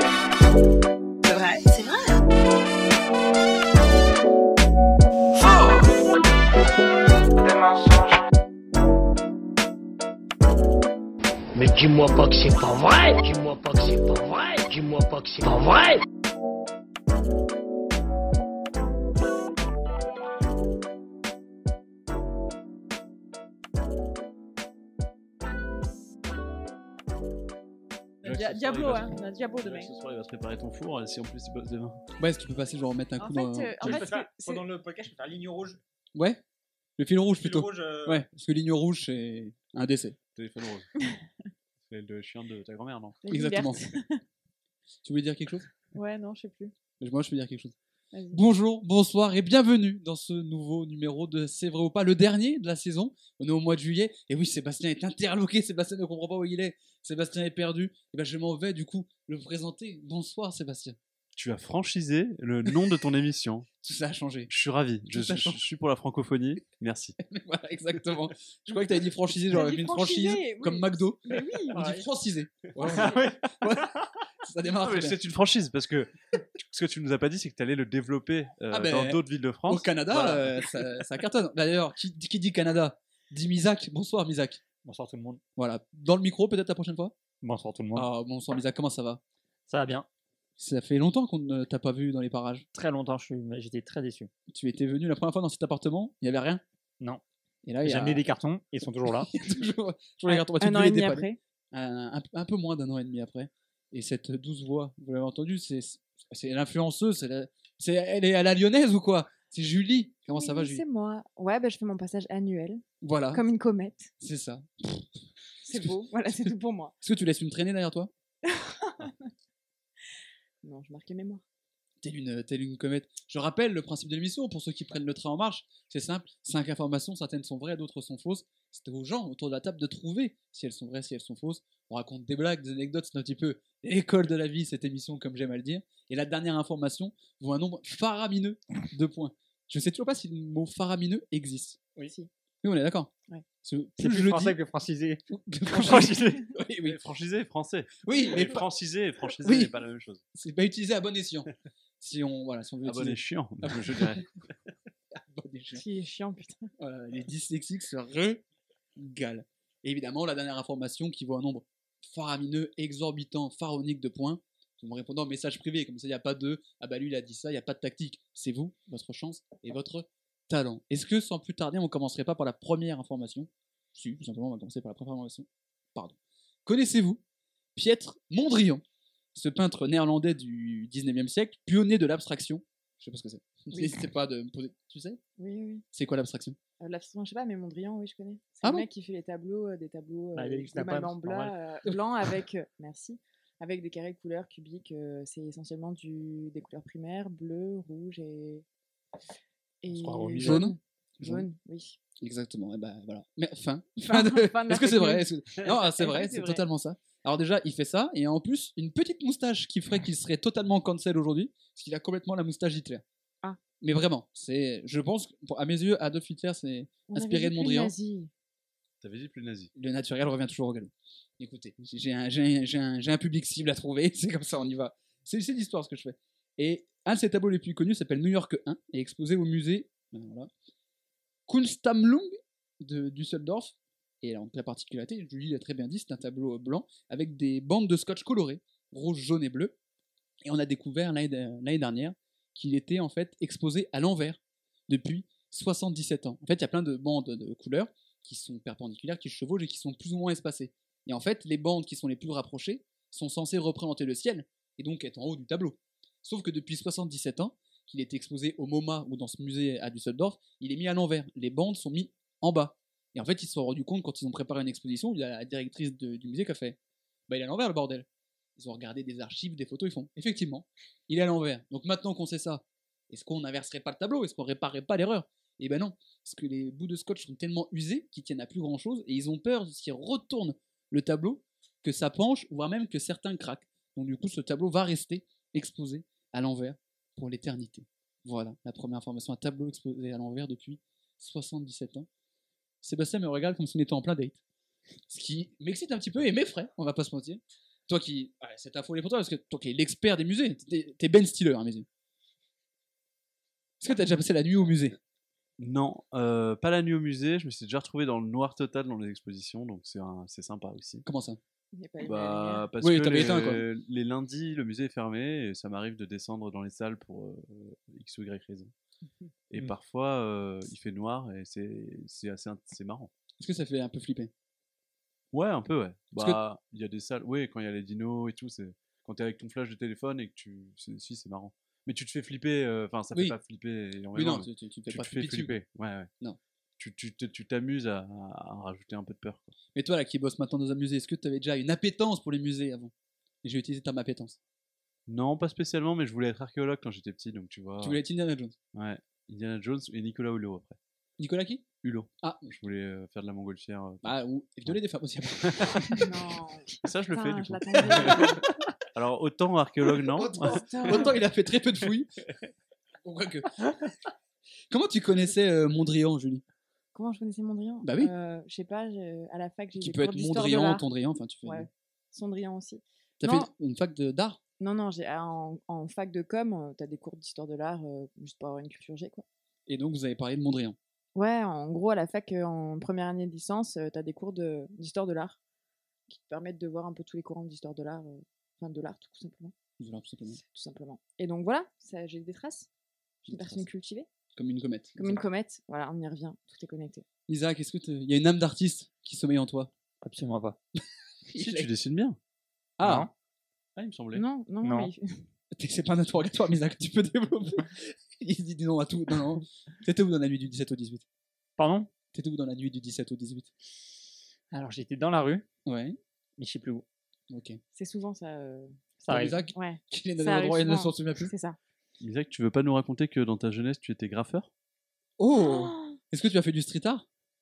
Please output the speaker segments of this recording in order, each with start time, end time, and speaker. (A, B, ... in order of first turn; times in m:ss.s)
0:01.2-0:02.2 A
0:05.4-0:05.7 B
0:07.5-0:08.0 B
0:11.5-0:16.0 B
0:28.2-0:29.9 A
0:28.2-0:32.0 C
0:32.2-0:33.9 D
0:33.2-0:34.6 A
0:33.8-0:35.8 E
0:36.1-0:36.4 D
0:37.0-0:40.2 D
0:37.4-0:38.2 E
0:40.3-0:40.9 C
0:41.9-0:43.2 C
0:43.2-0:44.2 A
0:43.3-0:43.8 D
0:45.0-0:45.7 D
0:45.9-0:46.7 A
0:47.0-0:47.7 D
0:48.1-0:48.4 A
0:48.3-1:01.0 D
1:01.3-1:03.7 C
1:02.7-1:02.9 D
1:03.8-1:04.5 D
1:04.5-1:07.2 C
1:05.1-1:05.6 D
1:07.2-1:15.2 D
1:09.5-1:11.8 A
1:11.7-1:12.0 E
1:12.8-1:13.1 C
1:14.8-1:20.6 C
1:18.7-1:24.6 D
1:24.8-1:25.4 E
1:25.6-1:27.1 D
1:27.4-1:28.1 E
1:27.9-1:29.2 D
1:29.7-1:30.1 E
1:30.6-1:32.6 D
1:32.7-1:34.3 E
1:34.5-1:36.6 D
1:37.6-1:38.2 D
1:37.8-1:39.3 E
1:39.2-1:50.8 D
1:40.3-1:41.4 A
1:50.3-1:54.1 A
1:53.0-1:53.4 D
1:54.2-1:55.1 D
1:55.6-1:56.9 A
1:55.7-1:56.5 D
1:57.0-1:58.1 D
1:58.4-1:59.3 A
2:00.6-2:01.4 A
2:02.0-2:21.8 D
2:22.6-2:23.1 D
2:23.6-2:24.6 D
2:24.0-2:26.4 E
2:25.3-2:27.0 D
2:26.8-2:30.2 C
2:28.0-2:28.6 D
2:29.4-2:29.7 D
2:30.3-2:31.5 D
2:32.0-2:34.3 D
2:32.8-2:34.2 C
2:35.1-2:35.8 D
2:35.7-2:36.7 A
2:36.8-2:38.4 D
2:39.0-2:57.2 D
2:57.8-2:58.8 D
2:59.3-3:05.2 D
3:03.7-3:04.0 A
3:05.4-3:05.8 A
3:05.9-3:06.6 D
3:06.8-3:18.6 A
3:10.3-3:11.5 E
3:19.8-3:22.0 A
3:19.9-3:20.6 E
3:20.4-3:21.5 D
3:22.2-3:33.0 D
3:24.1-3:26.6 A
3:33.8-3:37.9 D
3:37.1-3:38.3 A
3:39.0-3:39.7 C
3:39.7-3:50.5 D
3:51.5-3:59.7 D
4:00.4-4:26.8 D
4:27.3-4:52.1 D
4:52.8-4:54.4 D
4:55.1-5:01.9 D
5:03.8-5:05.0 D
5:05.6-5:11.0 C
5:11.0-5:11.4 D
5:11.7-5:12.6 A
5:12.0-5:18.7 C
5:12.8-5:13.6 D
5:19.5-5:23.1 C
5:23.4-5:24.3 D
5:25.3-5:36.1 C
5:34.1-5:35.6 D
5:36.8-5:39.5 C
5:39.7-5:42.9 D
5:43.4-5:44.4 D
5:45.1-5:48.0 C
5:47.8-5:48.5 D
5:48.7-5:50.8 C
5:51.2-5:51.6 D
5:51.8-5:54.1 C
5:52.2-5:52.5 D
5:54.0-5:56.1 D
5:55.4-5:55.9 C
5:55.9-5:58.4 A
5:56.8-6:01.1 C
5:57.9-5:58.7 D
6:00.0-6:02.2 D
6:00.3-6:01.2 A
6:03.0-6:04.0 D
6:04.7-6:06.4 D
6:06.9-6:10.8 A
6:07.8-6:08.1 D
6:09.8-6:11.7 D
6:11.4-6:13.5 A
6:13.2-6:14.4 D
6:14.6-6:19.2 A
6:19.7-6:20.8 D
6:21.1-6:25.4 A
6:26.1-6:29.5 A
6:29.8-6:30.4 D
6:30.3-6:32.7 A
6:33.2-6:33.6 C
6:33.2-6:34.1 A
6:34.4-6:35.2 D
6:35.0-6:37.0 A
6:37.3-6:39.7 D
6:40.0-6:40.6 E
6:40.8-6:41.7 D
6:41.4-6:42.2 C
6:42.8-6:43.1 D
6:42.8-6:43.1 E
6:43.8-6:44.2 C
6:44.1-6:45.2 A
6:44.6-6:44.9 E
6:45.5-6:51.0 D
6:51.6-6:51.9 E
6:52.1-6:53.5 D
6:54.5-6:55.4 E
6:55.6-6:56.0 D
6:56.4-6:56.8 E
6:57.3-6:57.6 D
6:57.7-6:58.8 A
6:59.0-6:59.4 E
6:59.1-7:01.3 D
6:59.5-7:01.6 A
7:02.0-7:04.5 C
7:05.2-7:07.0 D
7:05.3-7:06.0 A